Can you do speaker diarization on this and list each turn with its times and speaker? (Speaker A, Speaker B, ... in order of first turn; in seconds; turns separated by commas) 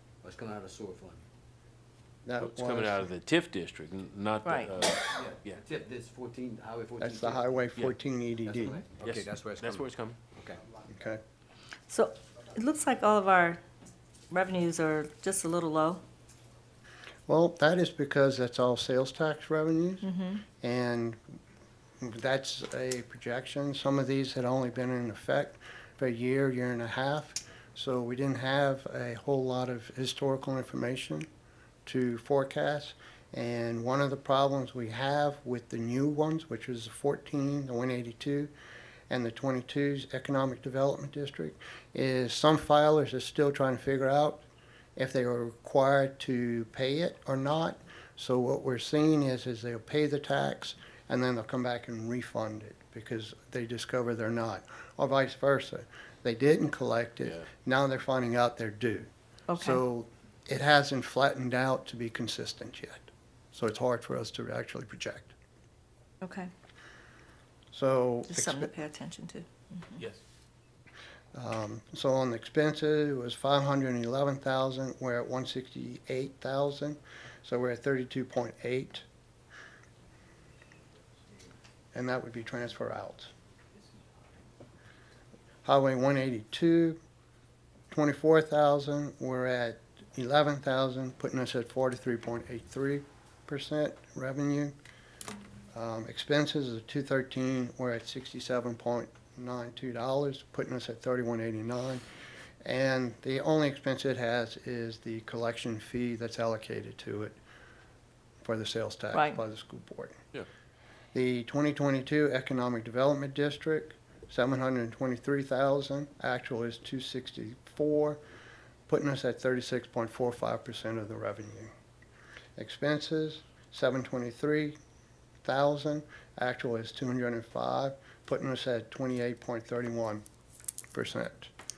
Speaker A: 0.2-1.2, Speaker B: 2.2-3.1, Speaker C: 2.4-5.5, Speaker A: 5.1-7.5, Speaker B: 7.0-8.8, Speaker A: 8.4-10.6, Speaker C: 9.0-10.2, Speaker B: 10.9-11.2, Speaker D: 11.9-13.6, Speaker D: 14.3-16.0, Speaker B: 17.3-21.2, Speaker D: 20.0-20.4, Speaker B: 22.0-31.3, Speaker B: 31.9-38.5, Speaker B: 39.1-44.4, Speaker B: 45.0-65.3, Speaker D: 59.5-59.8, Speaker D: 66.2-66.5, Speaker B: 67.7-68.7, Speaker D: 68.3-69.9, Speaker B: 71.3-79.0, Speaker B: 81.9-83.3, Speaker B: 85.6-87.0, Speaker B: 87.9-94.8, Speaker B: 95.7-102.0, Speaker B: 102.6-107.4, Speaker B: 108.4-110.2, Speaker D: 109.1-109.4, Speaker B: 111.1-118.2, Speaker B: 118.9-121.7, Speaker B: 122.6-124.8, Speaker B: 125.4-130.2, Speaker B: 130.9-131.5